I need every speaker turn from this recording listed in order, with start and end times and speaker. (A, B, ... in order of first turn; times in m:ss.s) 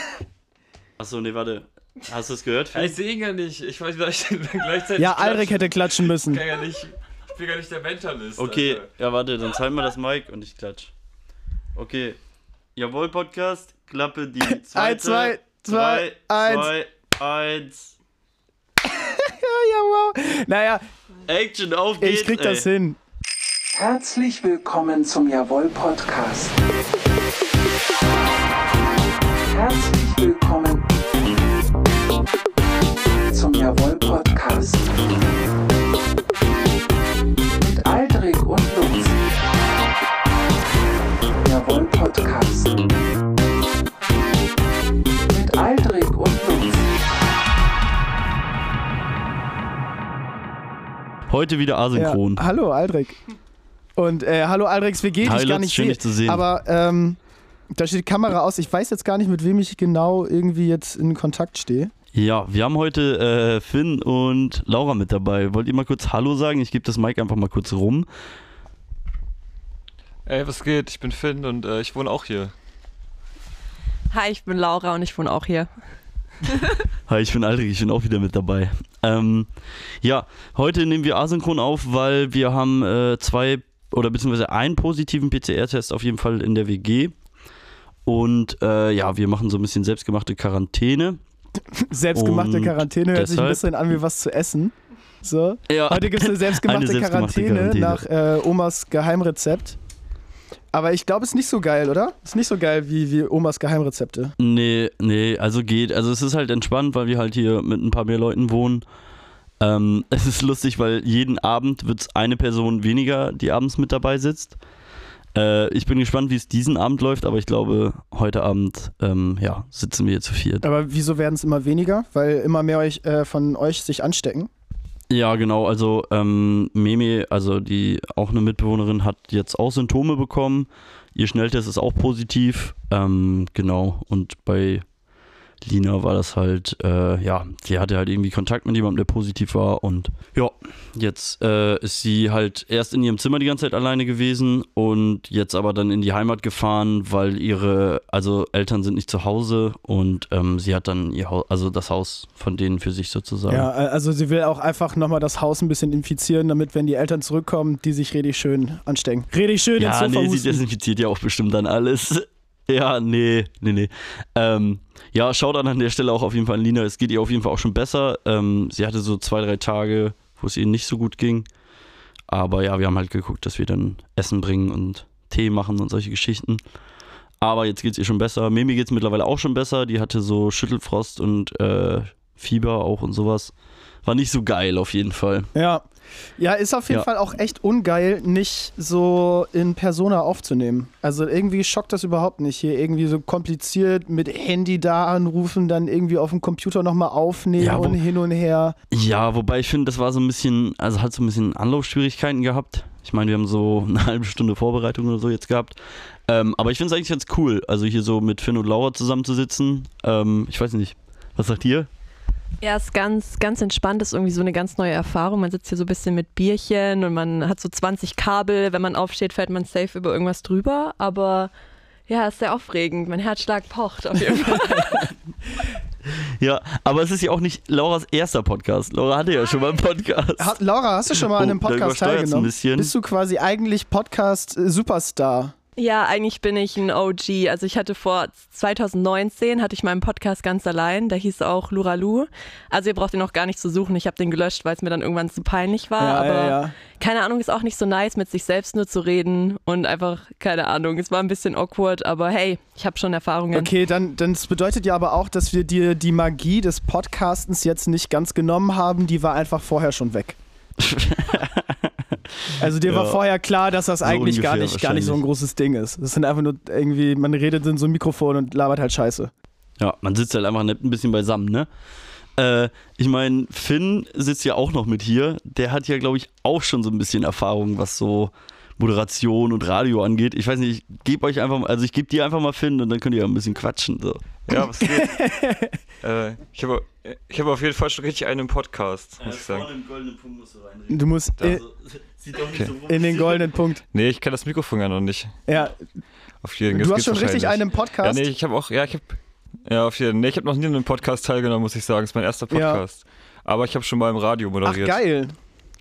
0:01.0-0:03.0 A
0:02.7-0:08.9 B
0:05.0-0:06.4 C
0:08.4-0:10.9 A
0:11.7-0:12.2 A
0:12.8-0:17.9 A
0:14.5-0:16.7 C
0:18.8-0:20.8 C
0:21.3-0:22.7 A
0:22.0-0:23.0 C
0:23.7-0:26.6 D
0:29.4-0:30.8 D
0:33.3-0:35.0 D
0:37.6-0:39.2 D
0:41.4-0:42.8 D
0:45.2-0:46.9 D
0:51.3-0:52.4 A
0:51.9-0:53.2 C
0:54.0-0:57.2 C
0:55.2-0:56.4 A
0:57.7-1:01.9 C
1:02.1-1:08.1 A
1:10.2-1:12.5 B
1:14.1-1:15.7 E
1:17.1-1:19.5 A
1:20.0-1:27.1 A
1:28.0-1:31.2 A
1:31.7-1:39.8 C
1:32.1-1:33.6 A
1:35.7-1:38.0 A
1:40.7-1:44.3 C
1:44.4-1:48.8 A
1:49.6-1:54.6 A
1:55.3-2:00.6 A
2:00.6-2:04.5 C
2:05.1-2:14.8 A
2:15.6-2:33.7 A
2:33.5-2:40.6 C
2:39.8-2:51.5 A
2:52.3-2:56.6 A
2:57.4-3:03.5 A
3:04.0-3:05.5 A
3:05.5-3:05.8 C
3:06.4-3:18.8 C
3:17.6-3:18.0 A
3:18.9-3:31.9 A
3:32.6-3:41.5 E
3:42.1-3:45.1 E
3:46.4-3:50.6 A
3:50.4-3:55.5 C
3:51.1-3:52.9 A
3:55.8-4:13.7 E
4:06.0-4:06.7 C
4:13.5-4:20.4 C
4:20.8-4:23.2 A
4:22.6-4:29.3 C
4:24.0-4:25.2 A
4:29.8-4:31.7 A
4:32.4-4:45.1 A
4:44.5-4:45.1 B
4:44.5-4:45.7 C
4:46.0-4:49.7 B
4:49.2-4:53.5 A
4:50.9-4:51.6 C
4:52.9-4:53.8 C
4:53.9-4:55.4 B
4:55.5-4:55.8 C
4:56.4-5:05.0 B
4:56.7-4:58.2 C
5:02.5-5:02.8 C
5:04.6-5:05.3 C